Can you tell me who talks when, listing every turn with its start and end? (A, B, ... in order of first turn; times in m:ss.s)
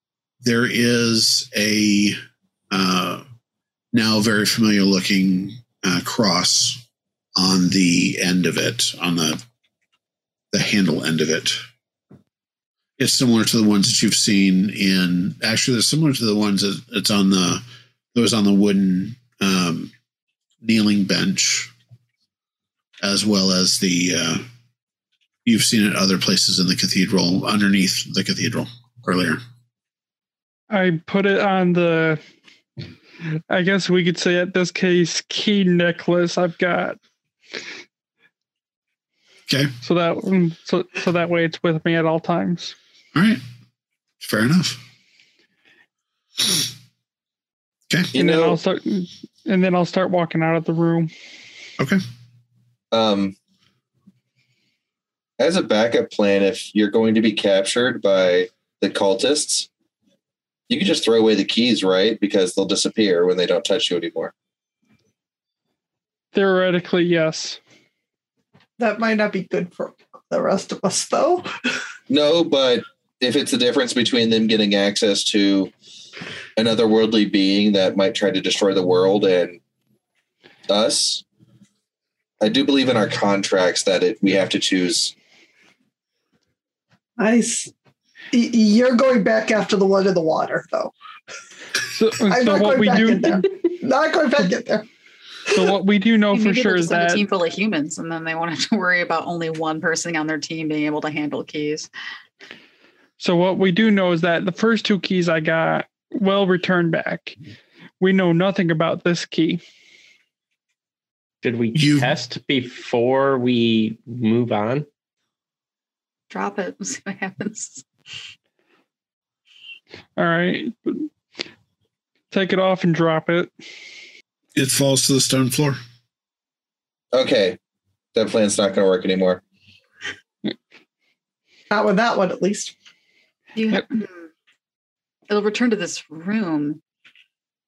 0:00.4-0:02.2 A
0:02.7-0:03.2 A
0:03.9-0:06.8 A
0:07.4-0:09.4 A
0:10.5-0:11.6 A
0:13.0-0:17.6 A
0:18.1-0:19.9 A
0:20.6-0:21.7 A
0:23.0-0:24.4 A
0:25.4-0:29.4 A
0:30.7-0:32.2 B
0:33.5-0:37.0 B
0:39.8-0:42.7 B
0:43.1-0:43.4 A
0:44.2-0:44.8 A
0:47.9-0:48.1 A
0:48.1-0:48.6 C
0:48.2-0:51.1 B
0:52.9-0:53.4 C
0:55.4-0:59.7 C
1:00.7-1:04.3 C
1:06.3-1:07.6 B
1:08.8-1:11.5 D
1:12.1-1:15.7 C
1:16.6-1:19.6 C
1:20.7-1:21.2 C
1:22.4-1:25.1 C
1:27.2-1:27.7 D
1:28.3-1:30.9 D
1:31.9-1:33.4 B
1:32.3-1:34.9 D
1:35.5-1:37.2 B
1:36.3-1:41.9 E
1:43.2-1:47.3 B
1:48.0-1:49.6 B
1:51.4-1:54.9 F
1:51.7-1:52.1 A
1:56.3-1:57.8 E
2:00.2-2:01.1 B
2:02.3-2:03.5 B
2:04.6-2:05.8 A
2:07.1-2:07.6 C
2:08.1-2:09.4 C
2:11.7-2:12.7 D
2:13.6-2:14.3 E
2:15.3-2:16.8 E